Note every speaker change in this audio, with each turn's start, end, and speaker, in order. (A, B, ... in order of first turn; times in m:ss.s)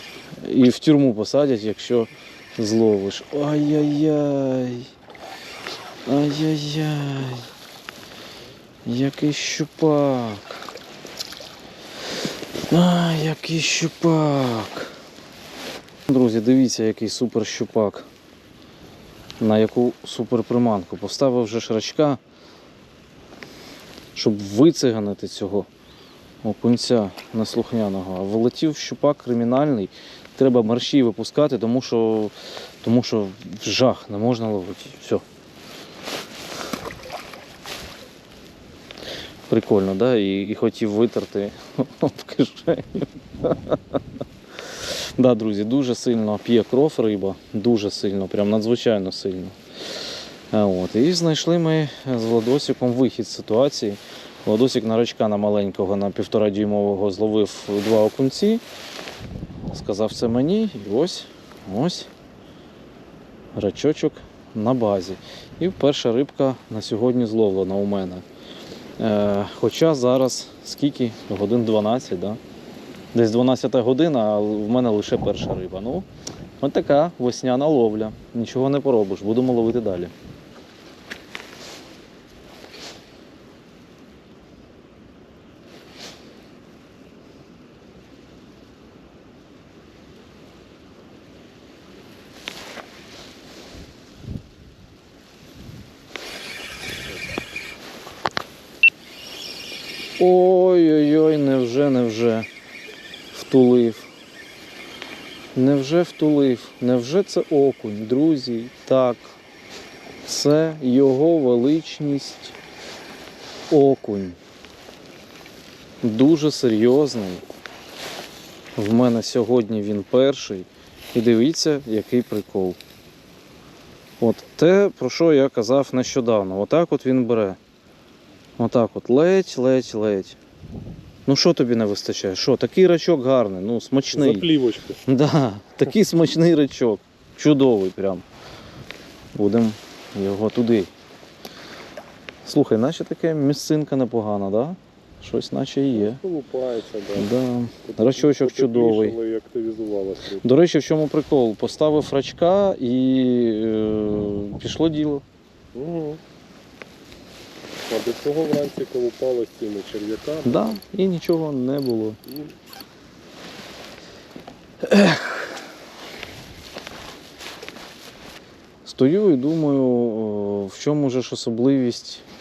0:00.4-0:04.9 A
0:06.1-0:07.5 A
0:08.8-0:10.6 A
0:12.7-0:15.0 A
0:16.1-0:18.1 A
0:19.4-0:22.2 A
0:24.1-0:25.7 A
0:26.4-0:35.2 A
0:39.5-0:44.0 A
0:44.8-0:49.6 A
0:50.5-0:58.6 A
0:59.7-1:02.1 A
1:03.6-1:08.2 A
1:09.0-1:12.4 A
1:13.1-1:16.1 A
1:16.6-1:20.1 A
1:40.2-1:42.5 A
1:43.3-1:44.1 A
1:45.6-1:49.4 A
1:50.3-1:52.6 A
1:53.7-1:54.4 A
1:56.0-1:57.4 A
1:58.8-2:02.8 A
2:04.2-2:07.6 A
2:08.6-2:10.4 A
2:11.3-2:14.5 A
2:14.1-2:15.0 B
2:15.0-2:18.2 A
2:19.4-2:20.9 A
2:22.4-2:26.2 A
2:25.9-2:27.3 B
2:27.2-2:29.2 A
2:27.9-2:30.5 B
2:30.4-2:35.2 A
2:35.7-2:36.2 B
2:37.9-2:40.8 B
2:40.4-2:42.2 A
2:42.2-2:42.5 B
2:44.8-2:45.5 A
2:48.8-2:52.2 A